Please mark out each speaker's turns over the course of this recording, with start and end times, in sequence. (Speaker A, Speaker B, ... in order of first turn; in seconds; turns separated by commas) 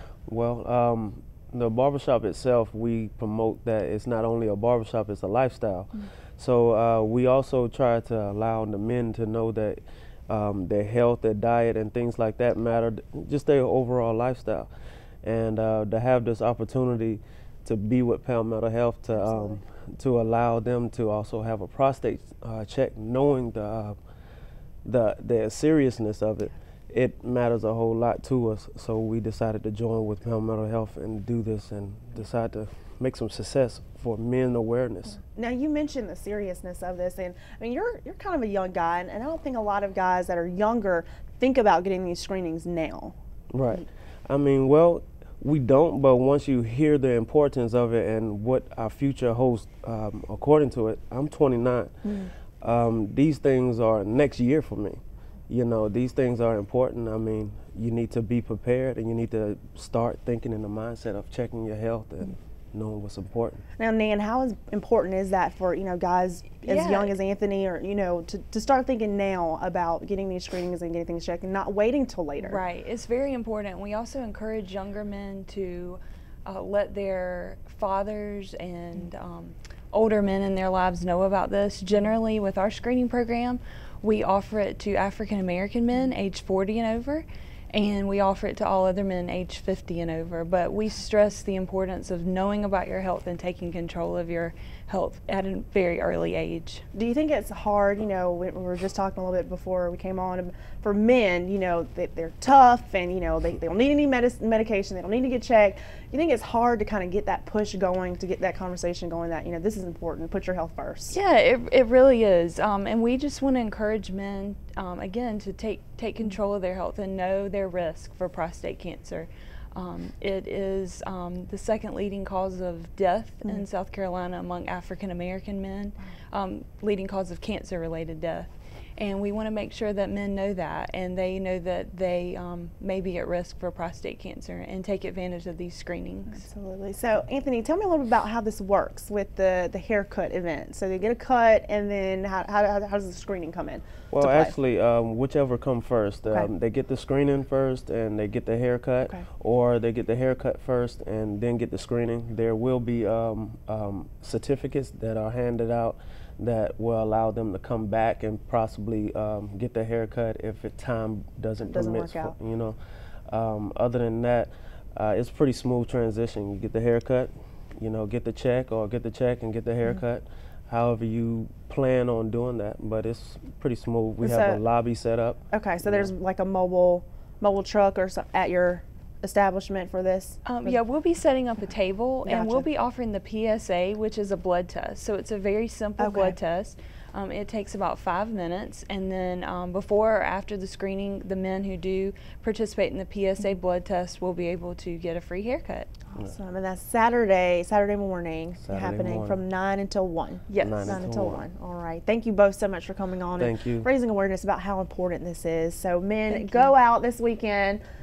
Speaker A: 0.3-14.7, Speaker A: 15.2-24.0, Speaker B: 19.1-19.6, Speaker A: 24.9-35.2, Speaker B: 35.2-43.2, Speaker A: 43.5-63.6, Speaker B: 63.8-72.6, Speaker C: 66.7-67.1, Speaker C: 72.4-96.9, Speaker B: 96.9-111.2, Speaker C: 111.1-136.4, Speaker B: 136.3-144.6, Speaker A: 144.1-162.8, Speaker B: 161.6-162.3, Speaker A: 163.3-176.1, Speaker B: 174.2-174.6, Speaker B: 175.5-180.8, Speaker C: 180.4-195.9, Speaker B: 182.2-182.7, Speaker B: 186.0-186.4, Speaker B: 196.1-207.8, Speaker A: 198.6-199.4, Speaker C: 200.5-201.0, Speaker A: 200.6-201.4, Speaker A: 203.4-203.9, Speaker C: 206.3-206.7